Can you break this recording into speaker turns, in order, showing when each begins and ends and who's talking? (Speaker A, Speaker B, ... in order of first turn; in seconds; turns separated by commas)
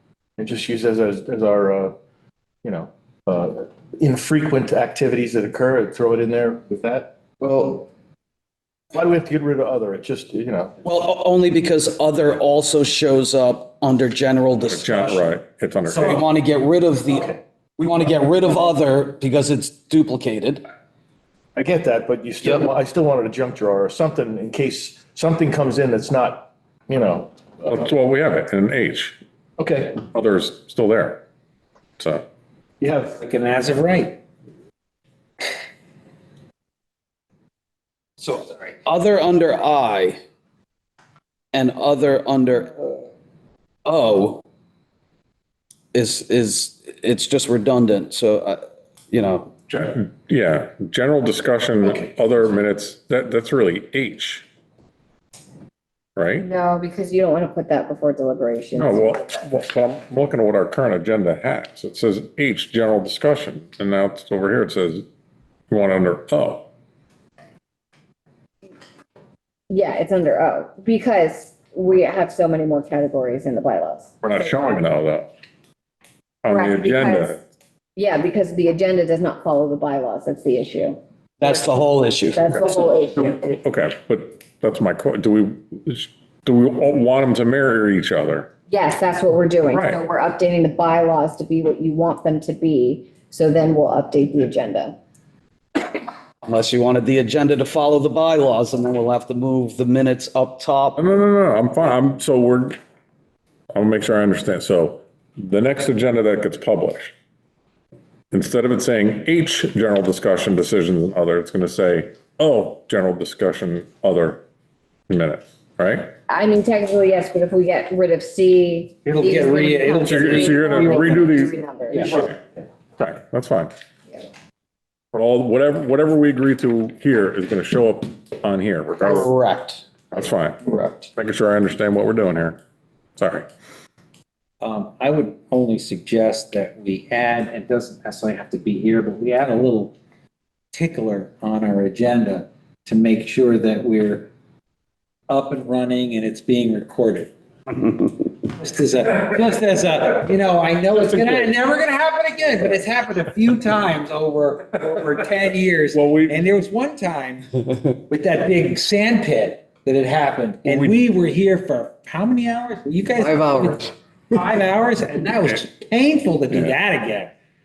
Speaker A: 0.4-1.9, Speaker A: 2.6-7.2, Speaker B: 7.4-7.8, Speaker A: 8.9-10.8, Speaker B: 10.8-15.2, Speaker C: 14.6-16.2, Speaker B: 15.9-20.6, Speaker A: 21.6-27.8, Speaker C: 27.7-29.2, Speaker A: 29.6-30.0, Speaker C: 30.1-31.2, Speaker C: 32.0-32.2, Speaker A: 32.8-33.2, Speaker D: 33.2-34.2, Speaker D: 38.2-38.5, Speaker B: 38.8-40.2, Speaker B: 41.5-43.0, Speaker B: 43.8-44.4, Speaker B: 45.9-49.5, Speaker C: 49.8-54.5, Speaker C: 56.1-56.5, Speaker E: 56.4-59.4, Speaker C: 58.7-65.1, Speaker C: 65.7-66.7, Speaker E: 69.7-74.7, Speaker C: 74.2-75.3, Speaker C: 76.4-77.4, Speaker E: 76.5-77.4, Speaker E: 78.0-81.0, Speaker B: 81.4-82.4, Speaker E: 82.3-83.5, Speaker C: 83.4-88.5, Speaker E: 88.7-95.0, Speaker C: 89.6-90.0, Speaker B: 96.4-101.0, Speaker C: 101.0-102.8, Speaker C: 103.7-107.1, Speaker C: 108.3-114.4, Speaker C: 115.1-116.2, Speaker E: 116.3-122.3, Speaker D: 119.0-121.3, Speaker C: 120.0-121.5, Speaker D: 121.9-122.2, Speaker C: 123.0-123.7, Speaker C: 125.1-129.3, Speaker B: 129.0-129.9, Speaker C: 130.1-130.6, Speaker B: 130.6-131.1, Speaker C: 131.2-132.6, Speaker C: 133.2-133.5, Speaker D: 134.6-139.9, Speaker D: 140.7-144.3, Speaker D: 145.3-147.3, Speaker D: 148.5-167.3, Speaker C: 155.9-156.4, Speaker C: 160.6-161.0, Speaker B: 163.2-163.9, Speaker C: 166.5-166.8